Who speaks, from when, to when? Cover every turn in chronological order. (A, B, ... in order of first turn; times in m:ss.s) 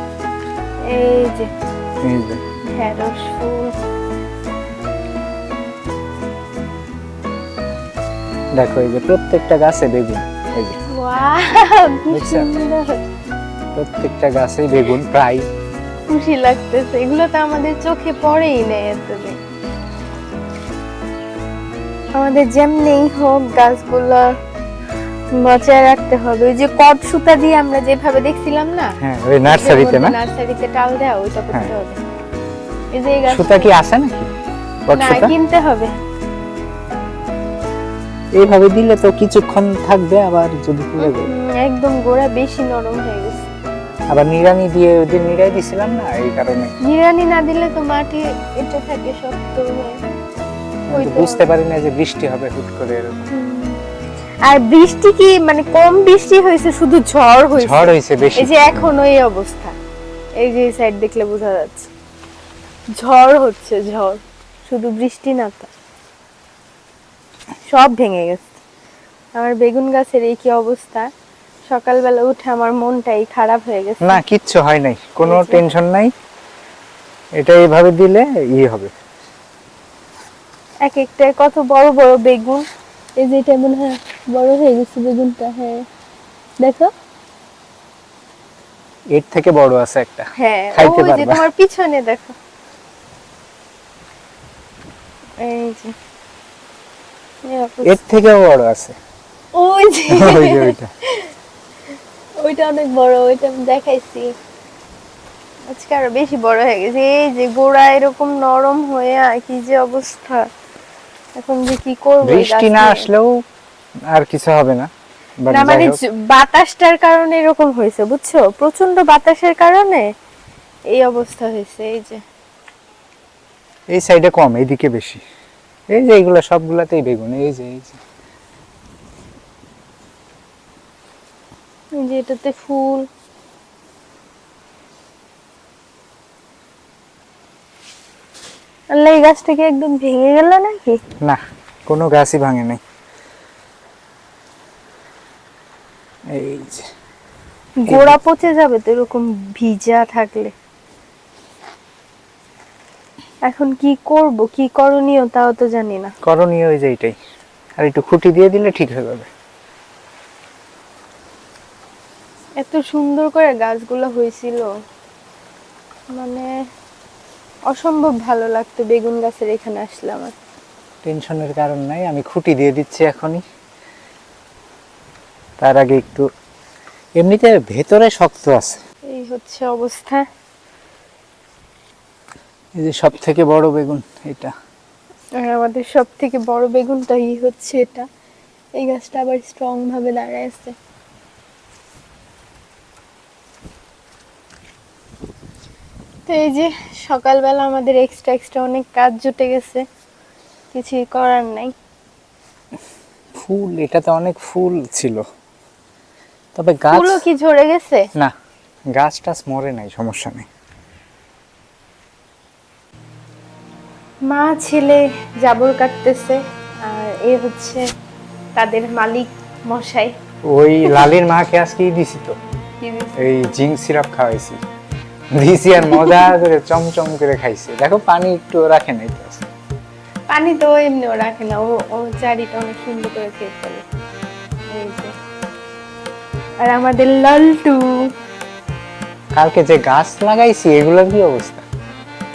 0:00.8-0:01.5 A
0:02.0-0:02.4 B
0:02.7-0:03.7 A
0:08.6-0:10.8 B
0:10.9-0:13.0 A
0:12.1-0:12.5 B
0:13.8-0:15.5 B
0:16.1-0:19.4 A
0:22.2-0:24.4 A
0:25.3-0:28.9 A
0:29.0-0:30.2 B
0:29.5-0:32.0 A
0:33.0-0:33.7 A
0:33.3-0:34.3 B
0:34.9-0:35.3 B
0:35.0-0:35.9 A
0:38.4-0:41.3 B
0:41.0-0:43.5 A
0:44.1-0:46.7 B
0:46.8-0:50.0 A
0:50.9-0:53.3 B
0:50.9-0:51.5 A
0:53.3-0:53.8 A
0:54.4-0:59.8 A
0:57.6-0:58.9 B
1:00.4-1:01.9 A
1:03.0-1:05.7 A
1:07.7-1:08.6 A
1:09.4-1:11.1 A
1:11.7-1:14.2 A
1:14.0-1:16.1 B
1:15.2-1:15.6 A
1:17.4-1:18.9 B
1:20.8-1:22.7 A
1:23.2-1:25.8 A
1:26.6-1:26.9 A
1:29.2-1:31.4 B
1:30.4-1:32.4 A
1:35.4-1:35.9 A
1:37.4-1:38.0 A
1:37.8-1:39.0 B
1:39.6-1:41.3 A
1:40.1-1:40.9 B
1:42.4-1:44.3 A
1:45.7-1:50.5 A
1:51.4-1:53.1 A
1:52.2-1:53.3 B
1:54.1-1:54.9 B
1:55.4-1:56.0 B
1:55.5-2:00.1 A
2:00.9-2:02.2 A
2:03.9-2:05.2 B
2:05.9-2:08.0 B
2:12.0-2:13.1 A
2:18.9-2:21.0 A
2:21.2-2:22.8 B
2:26.3-2:26.9 B
2:27.8-2:30.5 A
2:27.9-2:28.2 B
2:33.4-2:36.1 A
2:36.2-2:37.2 B
2:37.8-2:39.3 B
2:42.6-2:44.7 A
2:46.2-2:46.5 A
2:47.7-2:50.4 A
2:51.0-2:53.4 B
2:55.6-2:56.3 B
2:57.2-2:58.8 B
2:59.1-3:00.2 A
3:02.8-3:04.5 B
3:05.4-3:08.1 A
3:08.8-3:10.8 A
3:16.3-3:19.8 A
3:20.7-3:21.7 A
3:23.3-3:25.2 B
3:26.6-3:27.2 B
3:26.9-3:28.1 A
3:28.9-3:30.5 B
3:34.3-3:37.9 A
3:38.6-3:40.1 A
3:40.5-3:42.4 B
3:42.8-3:43.3 A
3:43.2-3:44.6 B
3:45.3-3:49.5 B
3:45.8-3:46.3 A
3:50.3-3:53.9 A
3:54.7-3:55.1 A
3:56.6-3:58.1 A
3:59.4-4:01.7 B